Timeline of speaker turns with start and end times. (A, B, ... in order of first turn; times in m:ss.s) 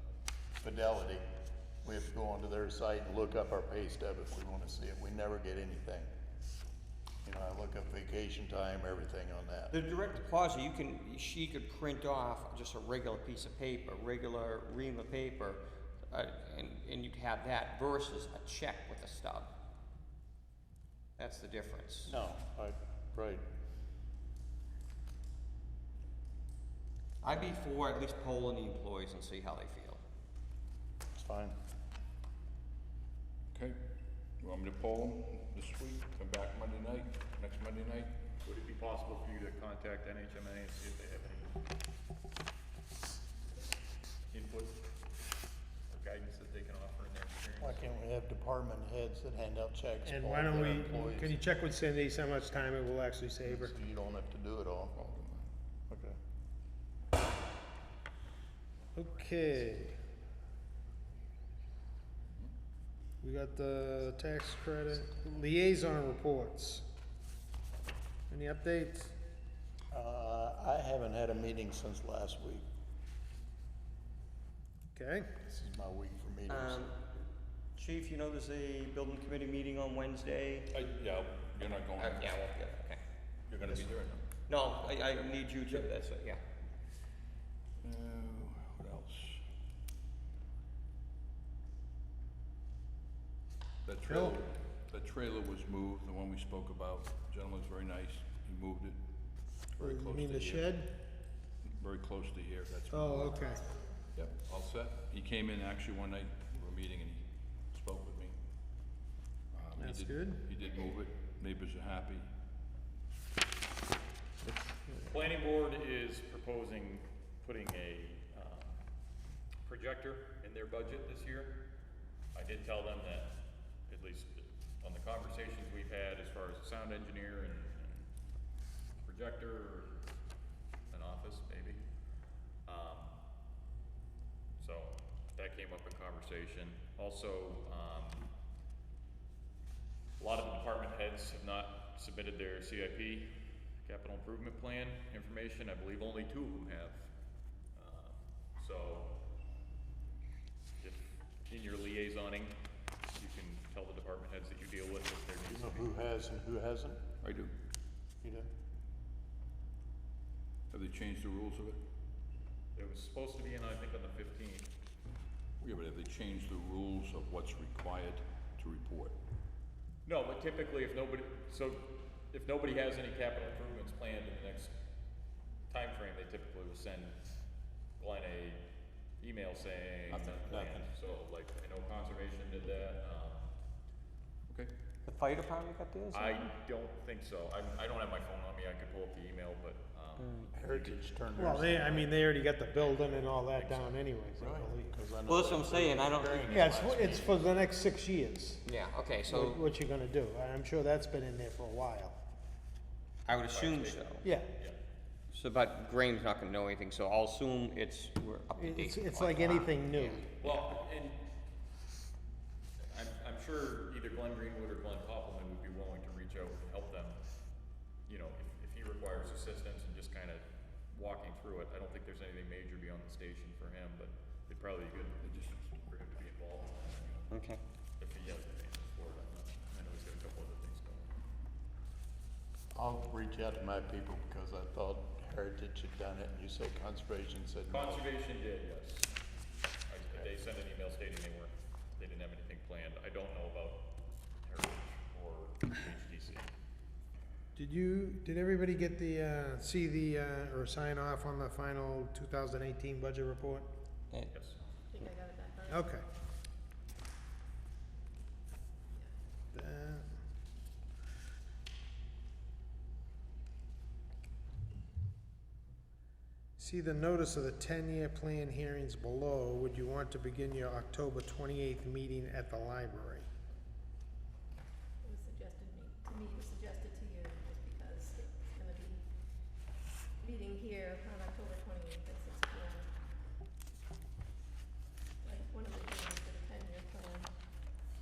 0:00.6-0:01.3 A
0:01.8-0:06.1 A
0:07.2-0:09.7 A
0:09.7-0:19.5 B
0:21.2-0:22.1 B
0:22.0-0:23.4 A
0:27.2-0:30.0 B
0:31.1-0:31.6 A
0:33.5-0:33.8 C
0:34.4-0:38.1 C
0:38.4-0:41.6 D
0:44.3-0:44.8 D
0:45.9-0:47.9 D
0:47.6-0:51.3 A
0:50.0-0:53.7 E
0:53.4-0:54.9 A
0:54.9-0:55.5 C
0:55.9-0:56.1 A
0:59.0-1:00.0 E
1:03.2-1:06.8 E
1:08.3-1:09.1 E
1:09.9-1:12.6 A
1:14.9-1:15.3 E
1:15.4-1:16.9 A
1:16.5-1:16.9 B
1:17.8-1:20.7 B
1:20.7-1:22.3 C
1:22.0-1:23.0 B
1:23.5-1:24.3 C
1:24.5-1:26.4 B
1:27.8-1:29.4 C
1:33.8-1:39.0 C
1:34.0-1:34.4 E
1:39.7-1:40.7 C
1:39.8-1:40.9 E
1:41.6-1:43.6 C
1:42.9-1:43.6 E
1:43.3-1:44.0 F
1:44.1-1:48.4 C
1:49.5-1:52.3 C
1:49.8-1:50.4 E
1:54.4-1:55.2 B
1:55.0-1:58.8 D
1:59.6-2:01.6 D
2:02.3-2:08.1 D
2:09.0-2:10.0 D
2:10.9-2:11.8 D
2:12.6-2:13.2 D
2:14.6-2:18.3 D
2:20.2-2:27.1 D
2:27.7-2:29.2 D
2:30.8-2:32.6 D
2:33.1-2:36.0 D
2:35.5-2:37.0 A
2:37.2-2:37.5 C
2:38.2-2:38.5 A
2:40.7-2:41.8 C
2:42.7-2:44.7 D
2:45.6-2:49.2 C
2:50.0-2:54.7 D
2:55.7-2:57.2 D
2:58.0-2:58.6 D
2:59.2-3:03.5 D
3:00.1-3:00.4 C
3:00.4-3:00.9 A
3:05.0-3:06.4 B
3:06.1-3:11.0 D
3:10.2-3:10.5 B
3:10.5-3:12.2 A
3:11.4-3:14.9 E
3:12.7-3:14.0 D
3:14.4-3:17.6 A
3:15.3-3:16.7 B
3:16.5-3:18.6 E
3:18.6-3:19.6 B
3:19.2-3:22.1 E
3:23.2-3:24.2 B
3:23.5-3:24.8 D
3:24.2-3:24.5 E
3:25.3-3:30.7 B
3:28.6-3:30.3 E
3:30.4-3:31.2 D
3:32.9-3:37.2 D
3:38.0-3:47.3 D
3:47.3-3:47.6 B
3:48.0-3:51.1 D
3:52.7-3:58.0 A
3:57.7-3:59.1 D
3:59.9-4:03.9 D
4:04.4-4:06.5 D
4:07.5-4:13.7 E
4:14.3-4:14.6 D
4:14.9-4:15.9 F
4:15.7-4:16.0 E
4:19.5-4:20.2 E
4:26.6-4:33.3 E
4:35.0-4:39.0 F
4:40.2-4:42.9 F
4:45.2-4:47.3 F